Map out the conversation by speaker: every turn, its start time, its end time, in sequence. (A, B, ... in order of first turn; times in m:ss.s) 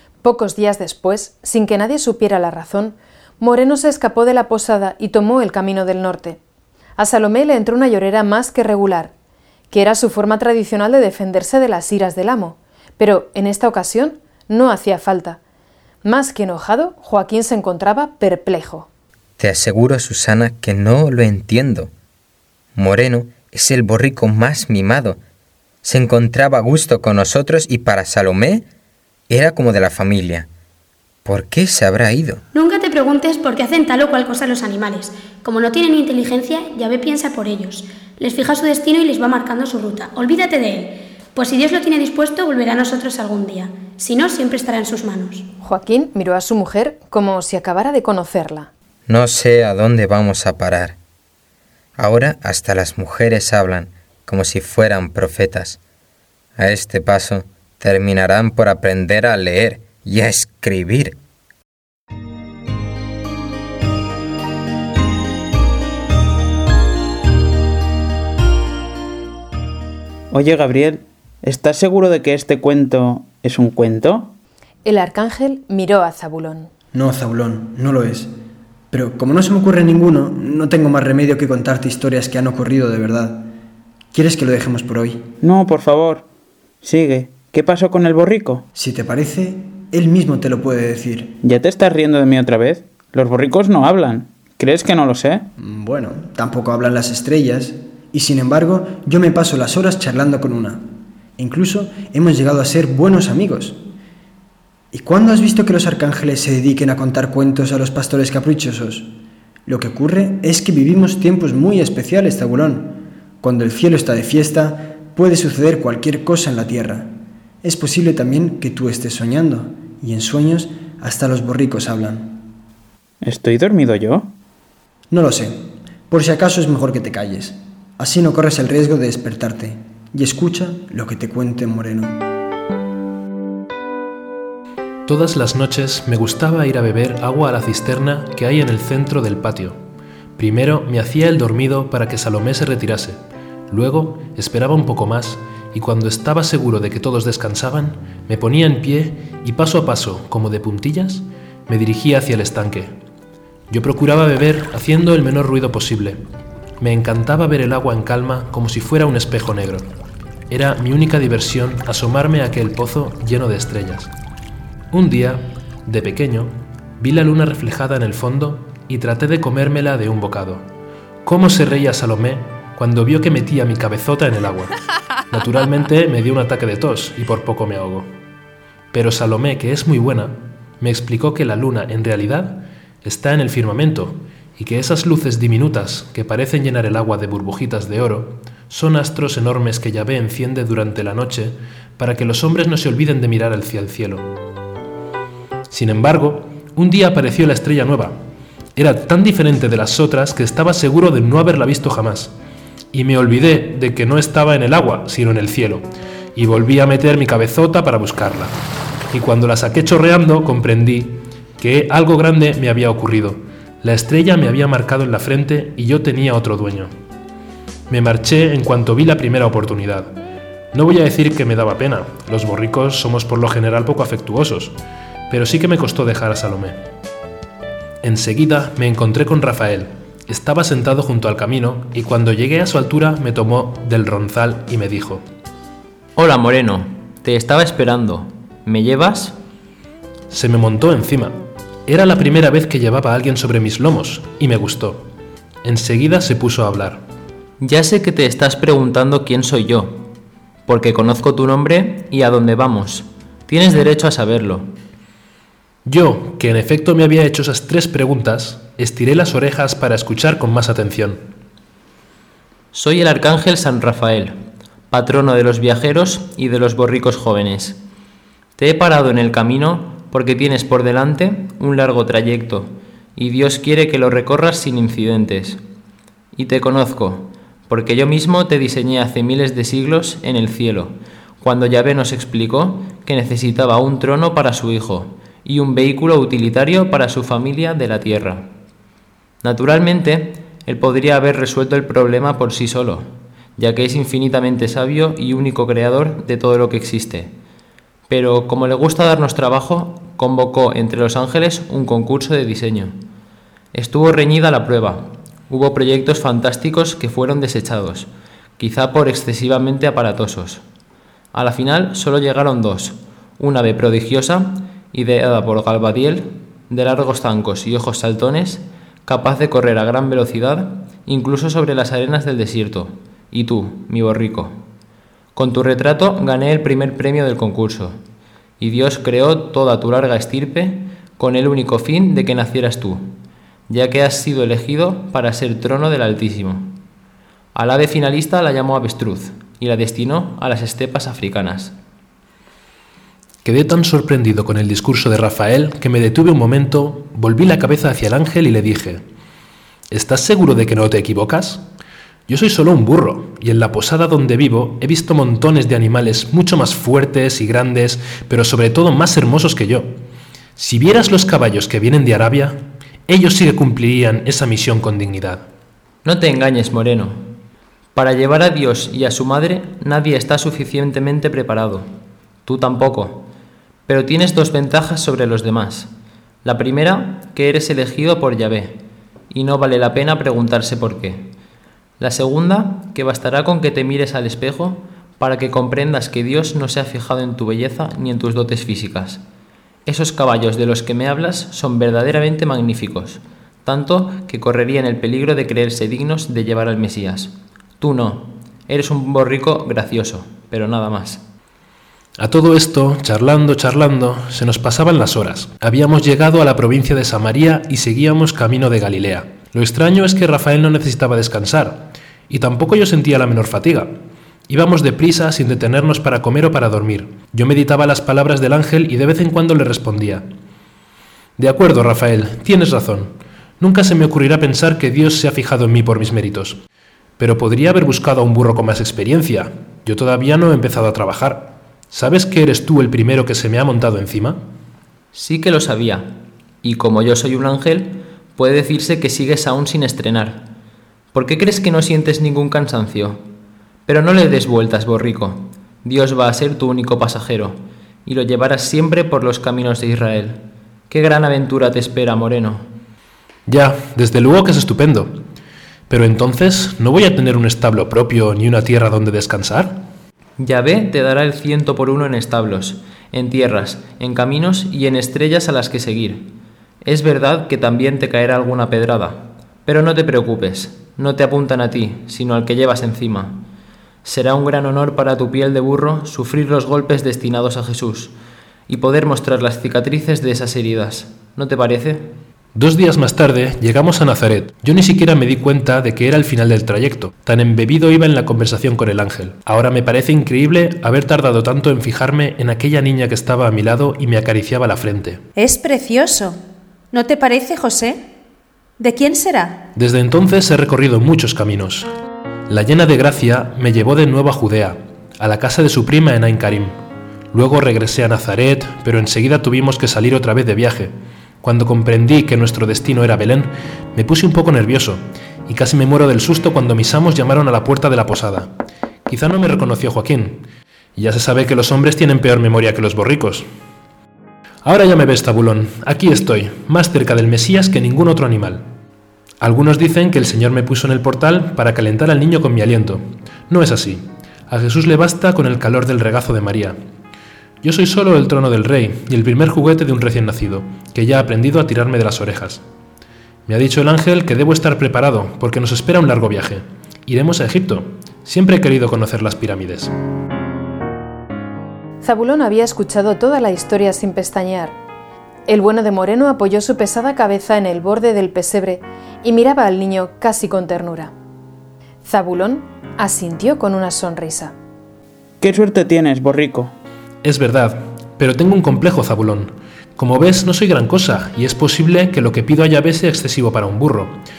0:00.2-0:06.4 A
0:07.0-0:09.1 A
0:09.7-0:15.4 A
0:16.0-0:18.9 A
0:19.4-0:21.9 B
0:22.8-0:25.2 B
0:25.8-0:28.6 B
0:29.3-0:30.5 B
0:31.2-0:32.4 B
0:32.5-0:45.5 C
0:45.6-0:48.7 A
0:49.1-0:51.0 B
0:52.0-0:55.8 B
0:56.6-1:01.2 B
1:10.3-1:14.4 D
1:14.8-1:16.7 A
1:16.9-1:18.3 E
1:18.9-1:23.5 E
1:24.1-1:25.3 E
1:25.4-1:26.3 D
1:26.8-1:28.6 D
1:28.8-1:31.4 E
1:31.4-1:35.5 D
1:35.6-1:40.8 E
1:41.4-1:43.8 E
1:44.9-1:49.1 E
1:49.7-1:57.1 E
1:57.6-2:02.4 E
2:03.2-2:04.3 D
2:05.1-2:05.6 E
2:06.1-2:12.2 E
2:15.1-2:19.8 F
2:20.4-2:32.9 F
2:33.7-2:36.2 F
2:36.8-2:39.9 F
2:40.5-2:44.1 F
2:44.9-2:50.7 F
2:51.2-2:54.7 F
2:55.3-2:58.1 F
2:58.9-3:14.3 F
3:15.7-3:18.2 F
3:18.8-3:22.3 F
3:22.9-3:28.5 F
3:29.1-3:36.9 F
3:37.9-3:40.2 F
3:40.7-3:44.8 F
3:45.3-3:46.8 F
3:48.0-3:55.2 F
3:56.2-3:59.4 G
4:00.3-4:05.1 F
4:05.6-4:07.0 F
4:07.6-4:10.1 G
4:10.7-4:14.7 G
4:15.8-4:21.3 F
4:22.7-4:24.3 G
4:24.9-4:27.8 G
4:28.6-4:35.6 G
4:36.4-4:48.5 G
4:49.4-4:57.3 G
4:58.1-5:03.0 G
5:03.7-5:10.6 G
5:11.3-5:24.6 G
5:25.4-5:28.0 G
5:28.6-5:33.1 G
5:33.7-5:36.8 G
5:37.6-5:41.8 G
5:43.4-5:49.0 F
5:49.9-5:51.6 F
5:52.3-5:59.9 F
6:00.6-6:05.4 F
6:06.0-6:07.2 G
6:08.0-6:11.9 G
6:12.4-6:13.3 G
6:13.9-6:15.9 G
6:16.4-6:21.3 G
6:22.0-6:29.2 G
6:29.9-6:41.2 G
6:42.2-6:53.9 F
6:54.5-7:00.2 F
7:01.4-7:06.6 F
7:07.2-7:14.4 F
7:15.1-7:20.5 G
7:21.1-7:23.2 G
7:23.9-7:32.7 G
7:33.5-7:35.2 F
7:35.9-7:39.8 F
7:40.4-7:46.3 G
7:46.8-7:53.4 G
7:54.0-7:58.1 G
7:58.7-8:02.1 G
8:02.6-8:15.2 F
8:15.4-8:16.4 H
8:16.9-8:18.1 H
8:18.8-8:19.7 H
8:19.8-8:21.9 F
8:22.5-8:26.8 F
8:27.3-8:38.5 F
8:39.1-8:43.5 F
8:44.6-8:48.6 F
8:49.4-8:56.8 F
8:57.6-9:02.6 F
9:03.5-9:09.9 F
9:12.0-9:14.8 A
9:15.5-9:21.1 A
9:22.0-9:24.5 A
9:25.4-9:26.8 D
9:27.2-9:34.2 F